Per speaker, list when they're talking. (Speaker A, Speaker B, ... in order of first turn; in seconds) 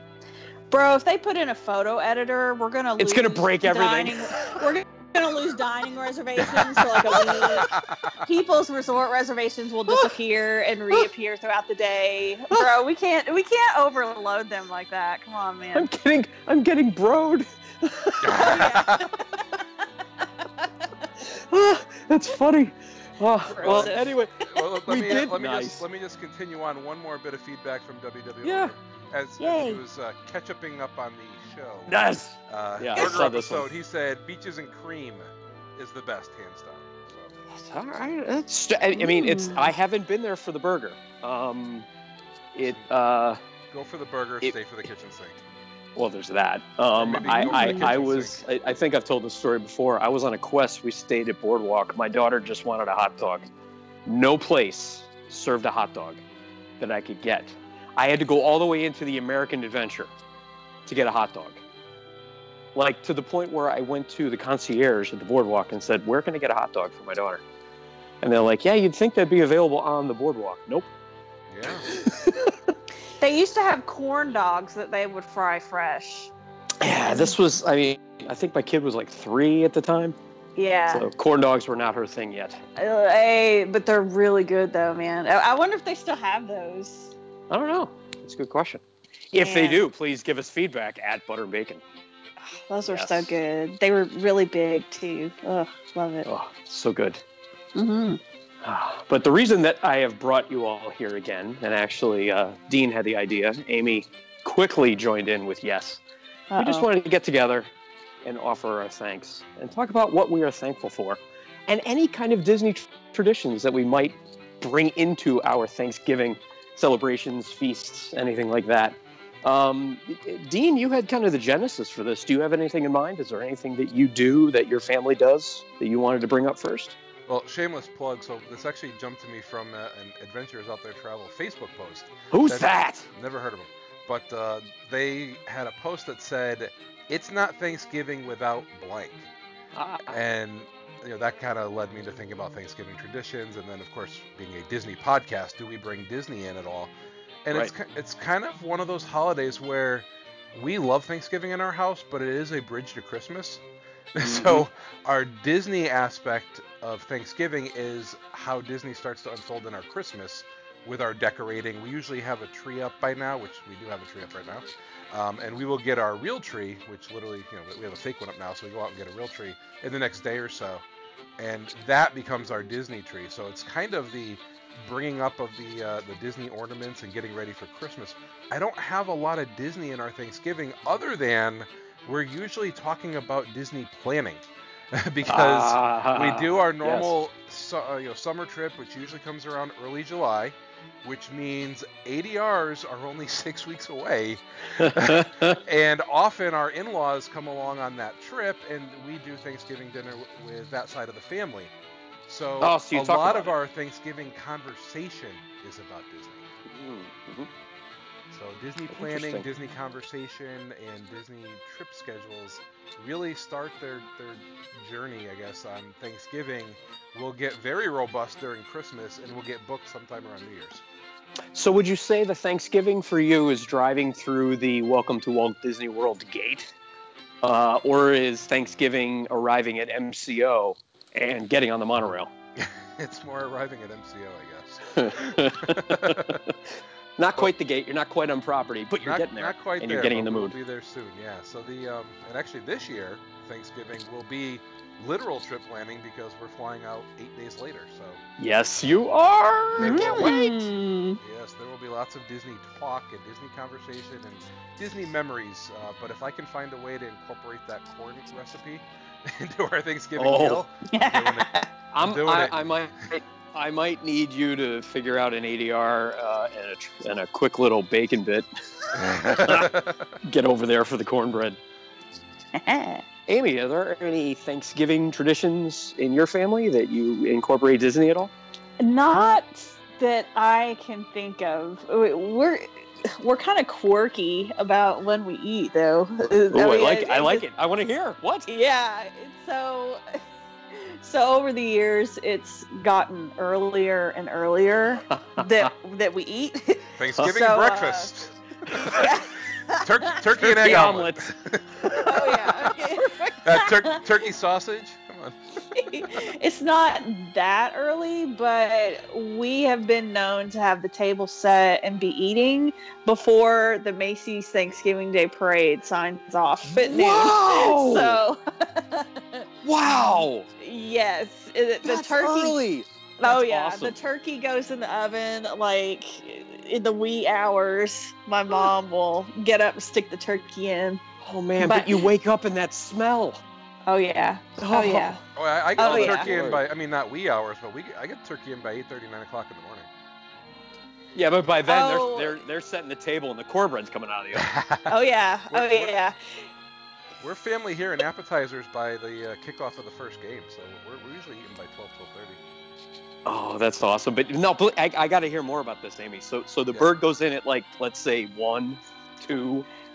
Speaker A: 0.7-15.9, 18.3-19.4, 23.6-24.5, 29.4-29.8, 39.0-39.7, 47.2-47.9, 73.2-76.3, 80.5-81.1, 82.8-87.1, 89.3-89.8, 92.4-96.3, 97.7-98.2, 106.5-106.9, 249.8-251.2, 260.9-261.7, 272.5-273.0, 278.8-287.4, 288.5-290.0, 290.7-298.1, 298.7-300.2, 301.9-304.0, 305.7-319.4, 320.0-322.6, 323.2-331.0, 331.6-332.1, 333.9-335.2, 335.8-336.3, 341.7-342.4, 344.9-346.1
Speaker B: 3.0-4.6, 6.5-7.7, 15.7-19.0, 21.2-25.9, 28.4-28.7, 31.9-33.7, 37.5-41.9, 42.5-43.4, 45.9-53.5, 54.0-56.2, 56.8-60.1, 60.9-61.6, 62.7-67.4, 68.2-70.9, 71.9-72.5, 76.8-80.2, 80.9-82.6, 87.5-91.8, 92.9-93.4, 96.2-97.2, 98.6-106.0, 106.6-107.7, 108.2-127.0, 132.3-133.1, 139.7-140.2, 154.2-154.7, 185.2-187.1, 194.8-195.6, 202.6-203.5, 206.7-207.5, 208.9-209.5, 221.5-226.7, 227.4-232.3, 234.9-236.5, 237.2-240.5, 248.4-250.7, 260.2-260.6, 261.9-271.6, 273.3-278.3, 286.5-288.5, 295.1-295.7, 298.9-299.1, 300.4-301.3, 301.8-303.3, 316.7-318.2, 319.6-320.5, 321.8-323.9, 331.2-333.4, 334.6-335.2, 335.8-336.6, 341.1-344.5, 353.2-359.7
Speaker C: 7.6-8.0, 18.2-19.0, 23.6-23.9, 24.5-37.3, 42.6-42.9, 43.7-45.4, 46.9-48.4, 71.5-71.9, 127.3-139.3, 140.1-146.9, 147.4-153.6, 154.1-170.8, 171.4-184.4, 184.9-201.7, 202.3-206.5, 208.3-220.8, 232.6-236.4, 239.0-248.2, 249.8-250.4, 251.2-262.6, 269.0-270.0, 297.0-299.1, 299.7-302.0, 303.4-305.4, 335.4-339.9, 344.3-344.9, 345.5-345.9, 347.2-352.4